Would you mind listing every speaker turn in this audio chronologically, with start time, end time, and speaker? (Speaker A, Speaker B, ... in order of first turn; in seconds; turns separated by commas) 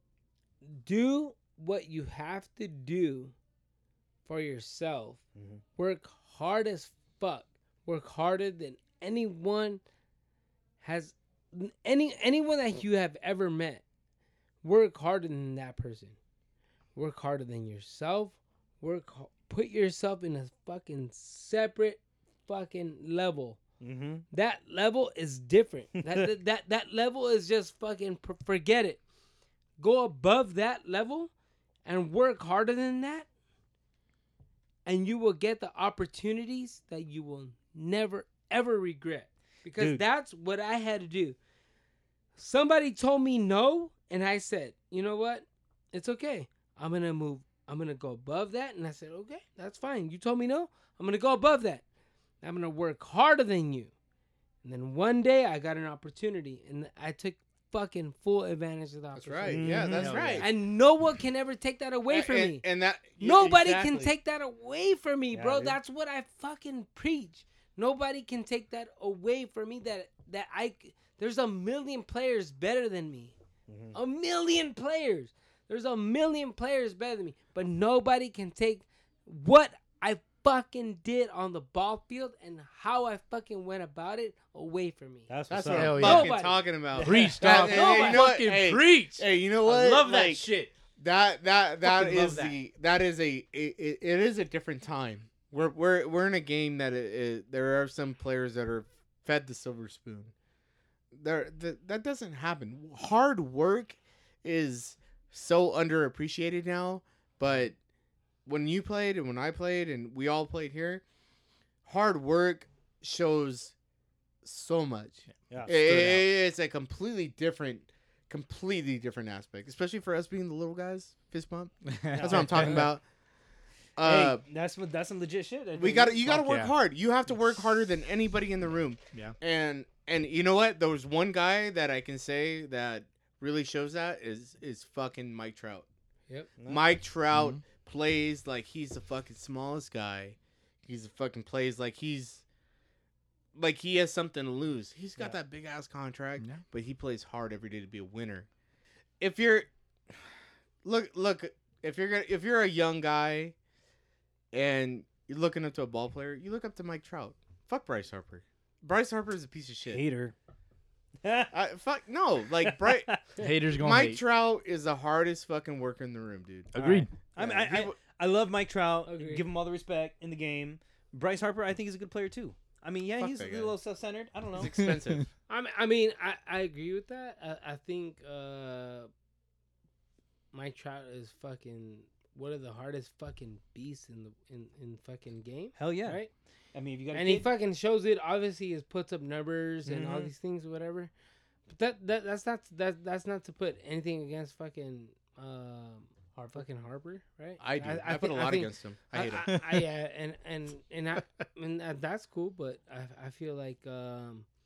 Speaker A: 0.6-3.3, Speaker A: 4.3-5.2, Speaker B: 5.4-5.6, Speaker A: 5.8-9.8, Speaker A: 10.8-13.8, Speaker A: 14.6-16.2, Speaker A: 16.9-23.6, Speaker B: 23.8-24.2, Speaker A: 24.3-29.0, Speaker B: 26.0-26.3, Speaker A: 29.8-31.3, Speaker A: 31.9-33.3, Speaker A: 34.9-41.4, Speaker B: 39.8-40.0, Speaker A: 42.4-51.8, Speaker A: 52.4-53.9, Speaker A: 54.6-59.8, Speaker C: 59.1-60.5, Speaker B: 59.5-60.4, Speaker D: 59.9-60.5, Speaker A: 60.4-62.6, Speaker C: 62.1-64.1, Speaker A: 63.2-73.3, Speaker B: 65.3-65.8, Speaker B: 73.7-74.0, Speaker A: 73.9-86.7, Speaker B: 85.3-86.3, Speaker C: 85.5-100.3, Speaker D: 85.7-86.4, Speaker B: 86.9-88.0, Speaker D: 87.0-90.7, Speaker A: 87.4-88.2, Speaker D: 91.8-92.6, Speaker C: 101.1-107.8, Speaker C: 108.5-111.0, Speaker C: 111.8-113.7, Speaker C: 114.4-123.0, Speaker B: 115.5-116.2, Speaker D: 121.9-122.9, Speaker B: 122.1-122.8, Speaker C: 124.0-124.4, Speaker B: 124.0-126.2, Speaker C: 125.8-135.9, Speaker D: 126.2-126.7, Speaker A: 136.3-136.6, Speaker B: 136.6-136.9, Speaker C: 136.6-142.4, Speaker D: 137.3-137.6, Speaker C: 143.5-148.5, Speaker C: 149.2-149.7, Speaker C: 150.8-153.6, Speaker C: 154.5-160.0, Speaker B: 159.9-160.3, Speaker B: 161.2-161.5, Speaker C: 161.5-163.2, Speaker B: 162.6-163.2, Speaker D: 163.4-164.2, Speaker C: 163.7-166.7, Speaker D: 166.7-167.1, Speaker B: 166.8-174.8, Speaker C: 167.4-168.0, Speaker A: 169.1-169.5, Speaker C: 173.2-173.8, Speaker C: 174.5-175.3, Speaker D: 174.8-175.1, Speaker A: 175.5-179.1, Speaker A: 180.5-186.3, Speaker B: 185.8-186.2, Speaker B: 186.7-187.5, Speaker A: 187.1-191.1, Speaker B: 189.8-190.3, Speaker A: 191.7-204.4, Speaker C: 197.6-199.5, Speaker D: 199.5-199.8